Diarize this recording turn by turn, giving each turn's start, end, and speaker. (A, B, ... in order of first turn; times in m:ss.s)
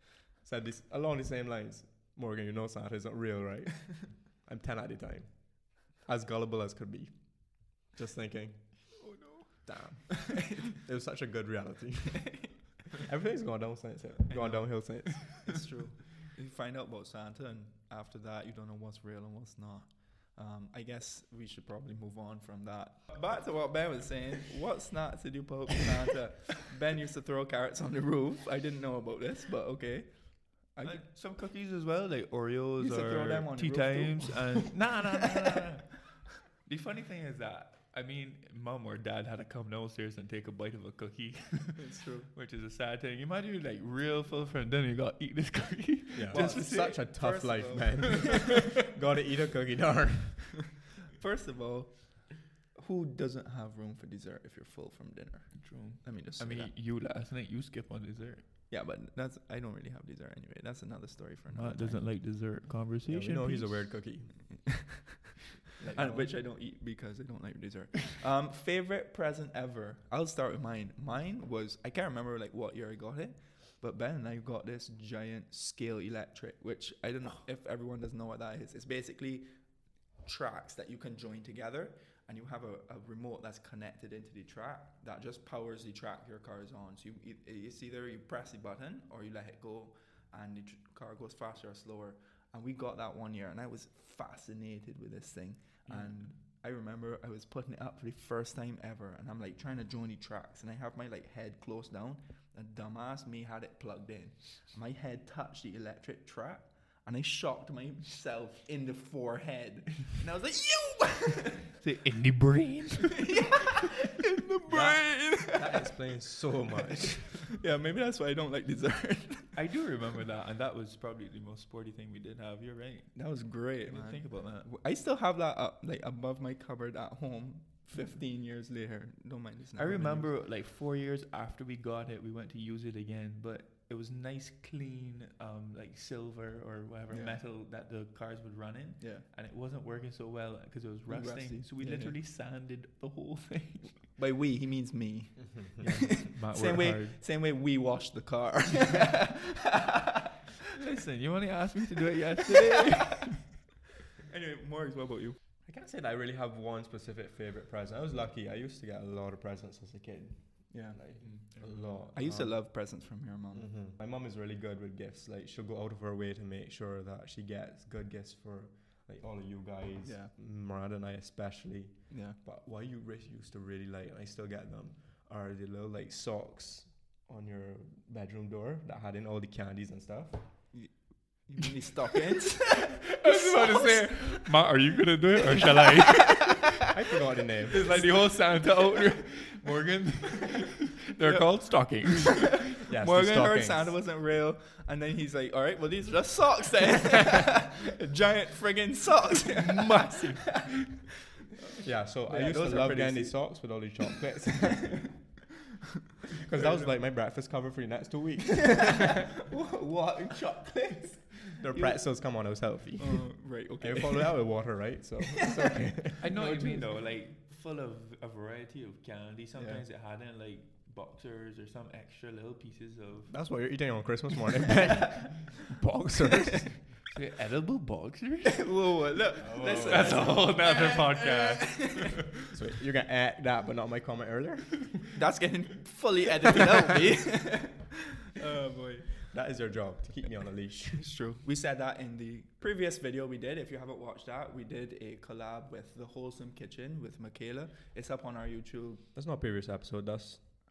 0:00.4-0:15.6 A
0:09.0-0:09.6 B
0:14.3-0:31.0 C
0:14.3-0:15.1 B
0:30.8-0:47.0 B
0:32.8-0:34.7 C
0:41.8-0:42.3 C
0:46.1-0:50.6 A
0:46.3-0:48.7 C
0:51.1-0:56.7 C
0:55.6-0:58.4 B
0:58.7-1:02.1 C
1:01.5-1:03.9 B
1:03.1-1:04.8 A
1:05.8-1:19.5 C
1:06.0-1:06.3 B
1:20.2-1:51.7 C
1:51.8-1:53.4 B
1:53.2-1:55.9 C
1:54.2-1:55.3 B
1:55.4-1:57.2 A
1:56.8-1:59.5 C
1:59.5-2:04.7 B
2:03.1-2:10.3 C
2:09.8-2:24.1 B
2:17.1-2:17.4 C
2:19.0-2:19.3 C
2:21.1-2:22.2 C
2:24.1-2:30.1 C
2:25.8-2:27.2 B
2:30.7-2:33.6 B
2:34.2-2:35.4 C
2:35.6-3:00.6 A
2:40.7-2:43.7 C
2:50.0-2:50.3 C
2:52.1-2:52.4 C
3:00.7-3:04.5 C
3:03.0-3:06.7 B
3:06.4-3:08.0 A
3:07.7-3:12.8 B
3:11.2-3:12.3 C
3:12.9-3:14.0 A
3:12.9-3:20.6 C
3:19.5-3:20.9 B
3:21.7-3:23.6 C
3:21.8-3:25.2 A
3:26.4-3:29.2 A
3:26.5-3:27.0 C
3:29.2-3:32.0 C
3:31.6-3:36.5 A
3:33.0-3:34.7 C
3:36.2-3:43.4 B
3:36.3-3:36.9 C
3:39.5-3:39.8 C
3:43.3-3:46.9 A
3:47.0-3:48.8 B
3:48.4-3:51.9 C
3:49.4-3:50.4 A
3:49.7-3:52.2 B
3:52.5-3:55.1 A
3:55.1-3:59.2 C
3:59.3-4:01.1 A
4:01.0-4:09.0 C
4:09.1-4:10.4 A